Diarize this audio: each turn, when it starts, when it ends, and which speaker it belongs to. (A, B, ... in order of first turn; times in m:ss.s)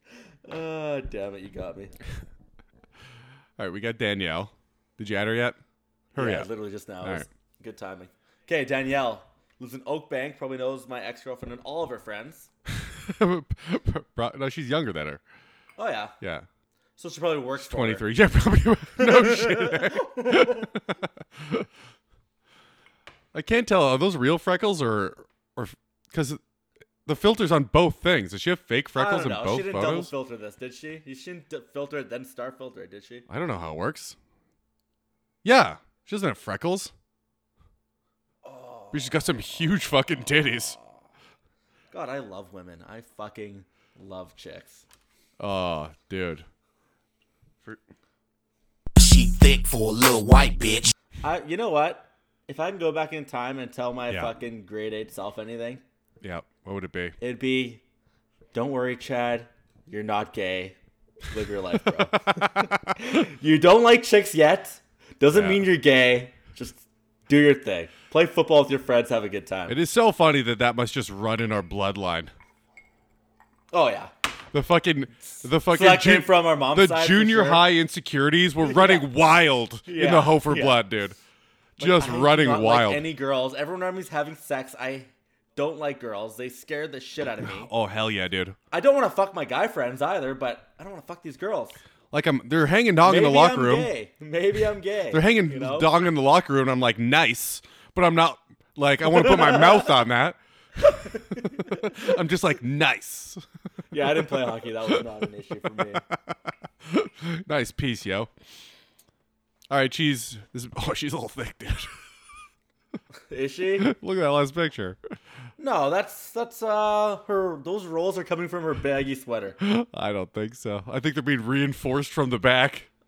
0:00.4-0:01.9 A
0:03.6-0:05.6 B
0:06.1-0:06.5 B
0:06.1-0:12.5 A
0:12.7-0:15.2 B
0:15.8-0:16.1 A
0:16.2-0:16.4 B
0:17.0-0:18.1 A
0:17.6-0:21.7 B
0:19.0-0:20.7 A
0:23.3-0:26.4 B
0:27.0-0:30.1 B
0:28.9-0:33.2 A
0:33.3-0:34.2 B
0:35.4-0:36.9 B
0:38.4-0:39.1 A
0:38.9-0:40.8 B
0:41.9-0:44.8 A
0:45.4-0:46.4 B
0:49.0-0:50.9 C
0:51.2-0:55.8 A
0:56.2-0:57.2 B
0:57.2-0:57.8 A
0:58.5-1:00.8 A
1:01.3-1:09.8 A
1:02.0-1:02.9 B
1:05.3-1:05.7 B
1:09.7-1:12.3 B
1:13.7-1:14.1 A
1:14.5-1:21.2 B
1:15.7-1:17.6 A
1:18.6-1:19.1 A
1:19.9-1:20.8 A
1:21.8-1:23.0 B
1:21.8-1:27.7 A
1:27.4-1:28.6 B
1:28.7-1:31.8 A
1:32.1-1:33.9 B
1:33.0-1:35.9 A
1:35.1-1:43.4 B
1:39.1-1:39.9 A
1:40.8-1:42.1 A
1:43.9-1:46.0 A
1:46.8-1:48.3 B
1:49.7-1:51.9 B
1:53.3-1:53.9 A
1:53.8-1:55.0 B
1:55.6-1:59.6 A
1:59.6-2:02.9 B